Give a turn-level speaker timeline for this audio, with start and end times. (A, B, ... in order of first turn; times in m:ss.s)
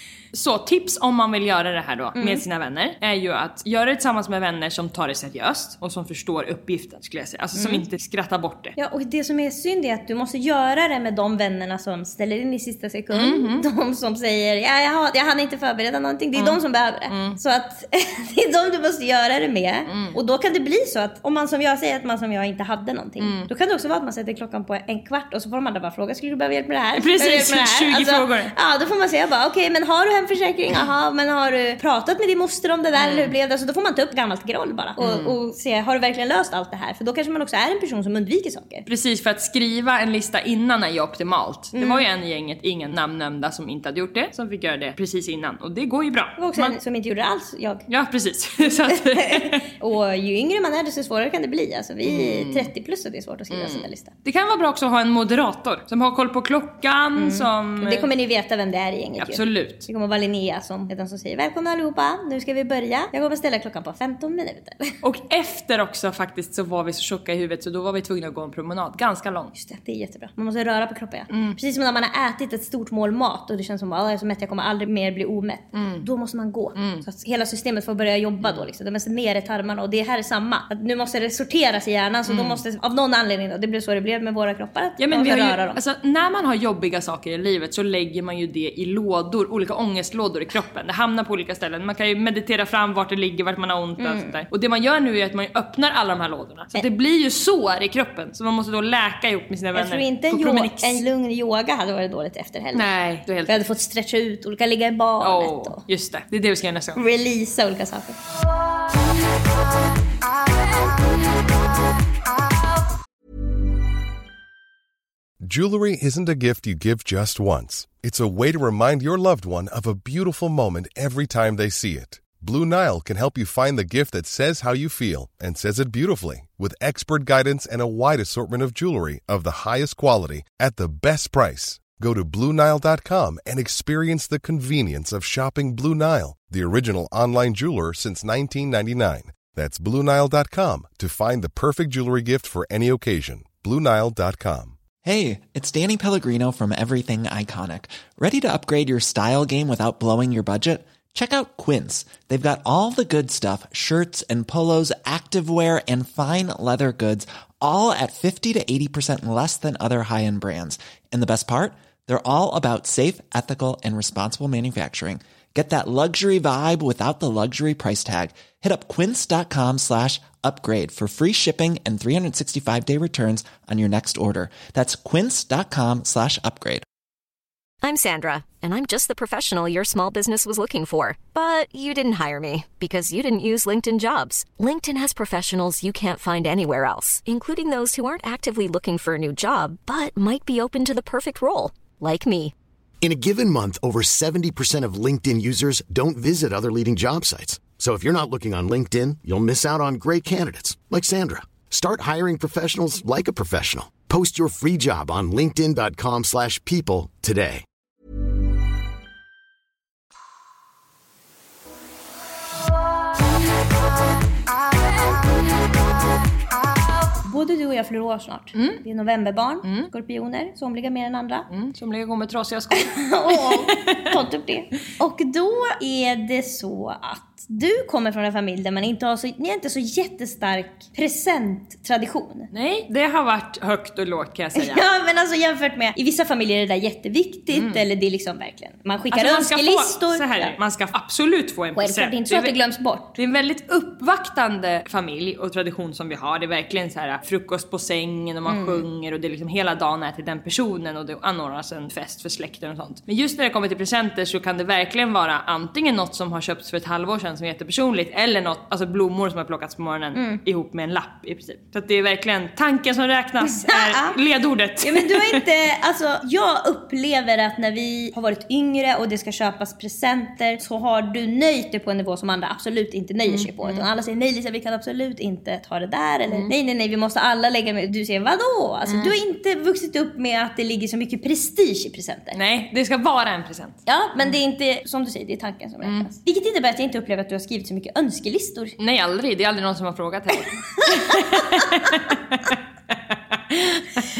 0:00.3-0:08.7 A
0:02.2-0:02.4 B
0:07.5-0:07.8 B
0:08.8-0:38.8 B
0:13.1-0:13.6 A
0:16.3-0:17.4 A
0:19.9-0:20.2 A
0:23.2-0:23.5 A
0:26.9-0:28.5 A
0:32.9-0:33.3 A
0:35.0-0:35.3 A
0:38.8-0:46.8 A
0:41.7-0:42.0 B
0:46.4-0:47.8 B
0:47.9-0:49.6 A
0:49.0-0:54.1 B
0:52.0-0:52.7 A
0:53.5-0:58.1 A
0:57.2-1:04.9 B
0:59.2-0:59.8 A
1:05.0-1:09.5 A
1:09.5-1:25.8 B
1:11.3-1:11.6 A
1:15.7-1:16.0 A
1:16.7-1:17.0 A
1:22.3-1:22.6 A
1:25.0-1:41.0 A
1:34.0-1:34.4 B
1:39.7-1:42.8 B
1:42.7-1:43.5 A
1:43.5-1:45.8 B
1:45.2-1:47.0 A
1:47.0-1:48.2 B
1:55.4-2:24.8 C
2:25.0-2:56.8 D
2:57.8-3:12.5 E
3:13.0-3:27.6 F
3:37.2-3:41.5 B
3:38.5-3:38.8 A
3:39.6-3:39.9 A
3:41.5-3:44.0 A
3:42.7-3:52.5 B
3:52.5-3:54.8 A
3:54.6-4:00.6 B
3:57.5-3:57.8 A
3:59.1-4:02.6 A
4:01.8-4:03.1 B
4:03.1-4:25.4 A
4:08.5-4:08.8 B
4:20.1-4:20.4 B
4:23.4-4:24.2 B
4:24.8-4:42.4 B
4:33.3-4:33.8 A
4:38.9-4:39.1 A
4:42.3-4:43.8 A
4:43.8-4:48.7 B
4:45.8-4:46.1 A
4:48.8-4:52.5 A
4:50.8-4:51.8 B
4:53.5-4:54.0 A